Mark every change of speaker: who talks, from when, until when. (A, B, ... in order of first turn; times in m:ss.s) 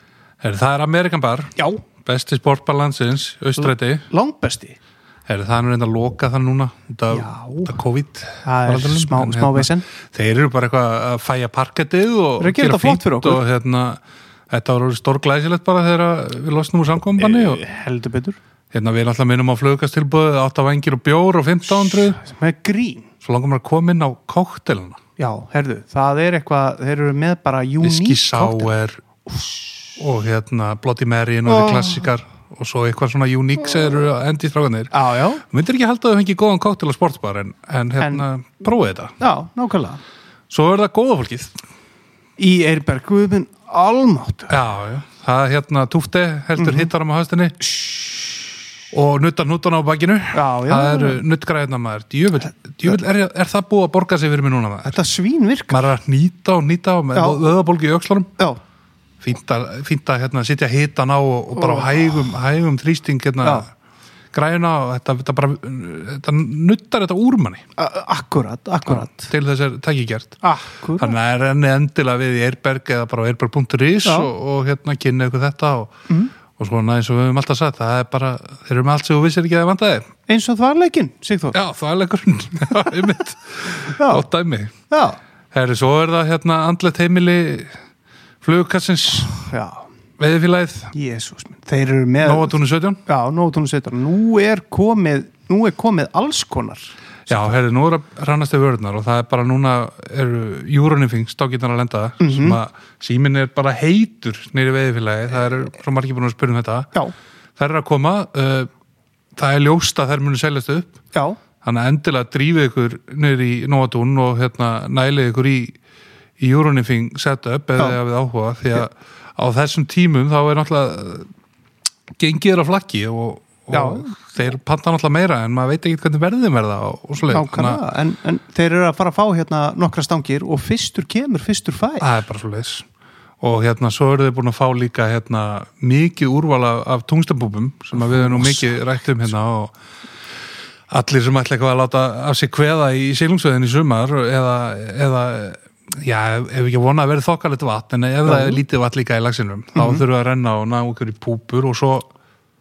0:00.4-0:04.0 A
0:01.6-0:01.8 B
0:03.6-0:04.8 B
0:05.3-0:17.6 A
0:07.1-0:07.7 B
0:08.4-0:09.9 B
0:12.4-0:13.4 B
0:17.2-0:18.4 B
0:18.7-0:22.2 A
0:21.9-0:23.1 B
0:23.2-0:25.0 A
0:25.2-0:28.7 B
0:27.8-0:29.0 A
0:29.3-0:29.9 B
0:30.0-0:39.1 A
0:31.4-0:32.1 B
0:34.9-0:35.4 B
0:38.0-0:38.2 B
0:39.2-0:40.0 B
0:40.5-0:41.6 A
0:42.4-0:44.6 B
0:44.5-0:47.6 A
0:46.6-0:46.9 B
0:48.9-0:55.0 A
0:50.3-0:51.2 B
0:54.8-0:55.9 B
0:55.7-0:58.3 A
0:57.1-0:57.4 B
0:59.2-1:03.7 A
1:01.6-1:02.1 B
1:04.3-1:07.6 A
1:07.8-1:09.3 B
1:08.9-1:10.4 A
1:10.4-1:11.1 B
1:10.9-1:16.0 A
1:14.0-1:14.3 B
1:16.5-1:20.1 A
1:20.3-1:21.6 B
1:21.5-1:24.7 A
1:23.9-1:24.2 B
1:24.9-1:25.2 B
1:25.5-1:27.8 A
1:28.4-1:29.4 A
1:29.3-1:29.9 B
1:30.2-1:30.9 A
1:30.9-1:37.5 B
1:32.2-1:33.0 A
1:37.3-1:46.9 A
1:42.2-1:42.6 B
1:47.6-1:48.7 A
1:49.4-1:51.0 A
1:51.1-1:51.4 B
1:51.6-1:55.8 A
1:56.4-2:01.3 A
2:02.2-2:07.8 A
2:03.7-2:04.1 B
2:07.2-2:12.2 B
2:12.0-2:12.9 A
2:13.4-2:19.7 A
2:18.0-2:18.8 B
2:20.9-2:32.1 A
2:28.2-2:28.6 B
2:29.8-2:30.0 B